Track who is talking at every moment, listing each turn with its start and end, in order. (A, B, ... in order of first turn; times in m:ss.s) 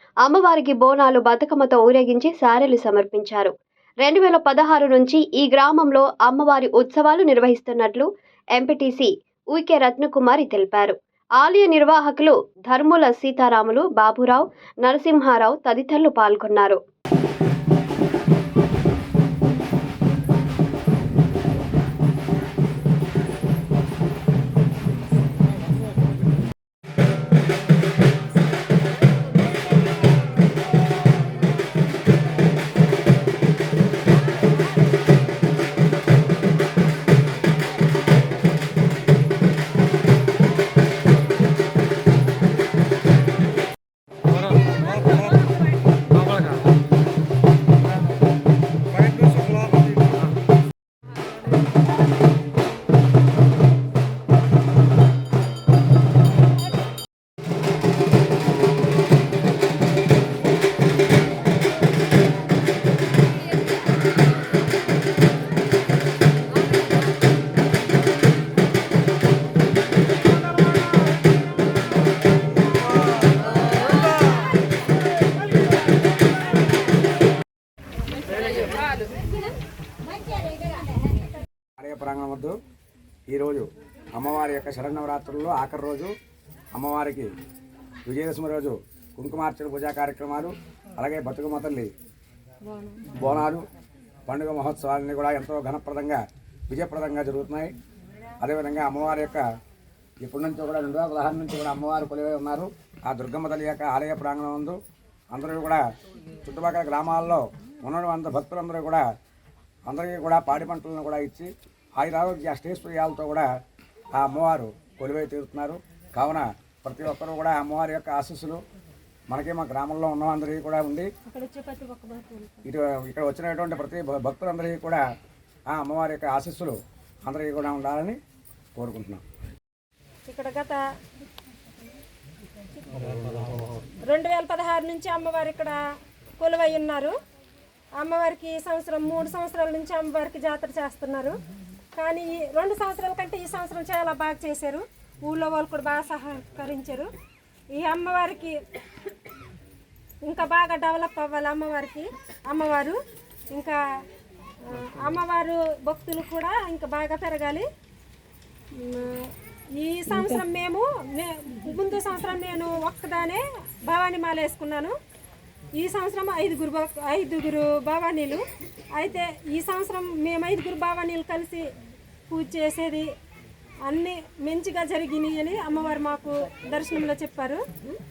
0:00.2-0:03.5 A
0:04.0-0:16.8 A
1:21.8-1:22.6 B
1:23.3-1:26.1 B
1:26.7-1:27.3 B
1:28.0-1:31.9 B
1:32.7-1:33.0 C
1:33.1-1:33.6 B
1:34.3-1:37.7 B
1:38.4-1:39.4 B
1:40.2-1:44.8 B
1:45.3-1:45.8 B
1:46.4-1:49.0 B
1:49.9-1:53.5 B
1:54.1-1:58.6 B
1:59.3-2:01.1 B
2:01.2-2:02.6 C
2:02.6-2:05.0 B
2:05.7-2:08.2 B
2:08.8-2:09.2 B
2:10.2-2:10.8 C
2:14.1-2:15.8 C
2:16.4-2:17.1 C
2:18.0-2:21.4 C
2:21.9-2:27.1 C
2:27.7-2:28.6 C
2:30.2-2:33.0 C
2:33.5-2:33.8 C
2:34.6-2:37.7 C
2:38.7-2:44.9 C
2:45.8-2:48.4 C
2:49.0-2:51.6 C
2:52.3-2:53.1 C
2:53.8-2:57.6 C